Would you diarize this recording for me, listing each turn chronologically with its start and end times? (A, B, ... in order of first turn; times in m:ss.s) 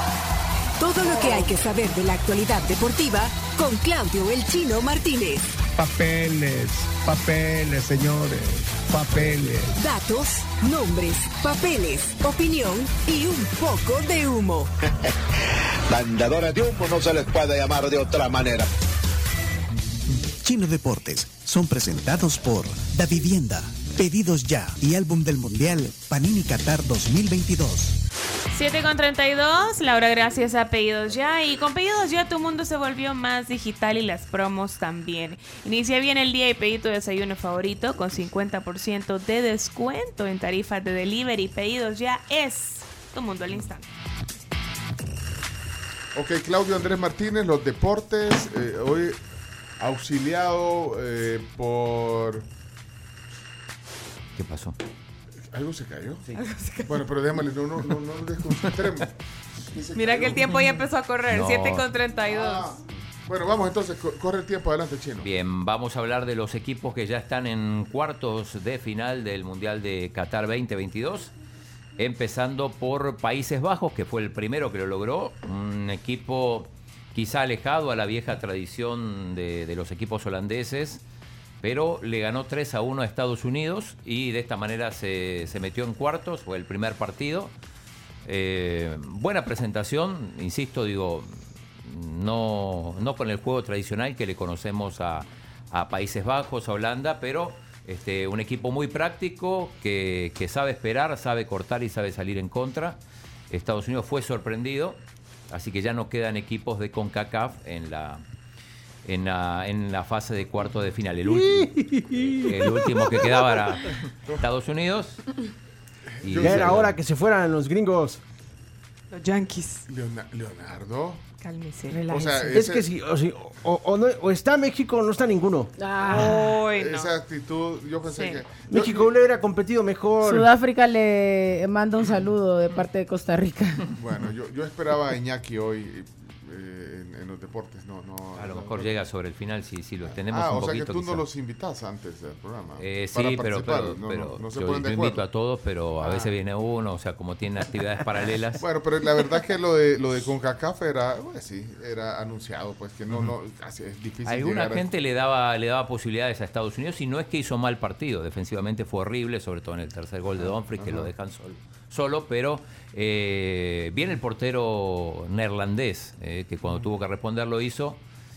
0:00.8-0:05.4 A
0:05.8-0:08.4 B
0:07.4-0:09.7 C
0:09.0-0:09.6 B
0:09.8-0:14.7 A
0:15.9-0:18.7 C
0:20.4-0:28.0 D
0:28.5-0:43.9 E
0:46.1-0:49.2 B
0:49.8-0:52.5 B
0:54.4-0:54.8 F
0:55.5-0:56.3 B
0:56.3-0:57.3 E
0:56.9-1:00.6 B
0:59.9-1:02.8 E
1:01.3-1:01.9 F
1:02.2-1:05.3 B
1:05.2-1:11.3 F
1:12.0-1:21.0 F
1:21.6-1:27.6 F
1:28.2-1:31.3 F
1:31.8-1:48.2 F
1:49.0-1:51.8 F
1:51.2-1:53.5 G
1:52.3-1:55.2 F
1:56.1-1:56.9 B
1:56.2-1:57.0 F
1:56.3-1:58.2 G
1:59.1-1:59.8 E
1:59.9-2:01.2 B
2:01.4-2:02.0 E
2:01.9-2:02.6 H
2:02.1-2:02.9 B
2:02.5-2:06.5 G
2:05.8-2:06.6 H
2:06.0-2:09.1 B
2:06.1-2:07.1 E
2:08.0-2:08.5 E
2:08.7-2:10.5 G
2:10.2-2:13.9 H
2:13.9-2:19.0 B
2:18.4-2:21.3 F
2:20.0-2:25.2 B
2:22.8-2:28.6 F
2:26.0-2:26.3 B
2:28.6-2:34.9 B
2:34.2-2:48.0 F
2:40.4-2:41.1 B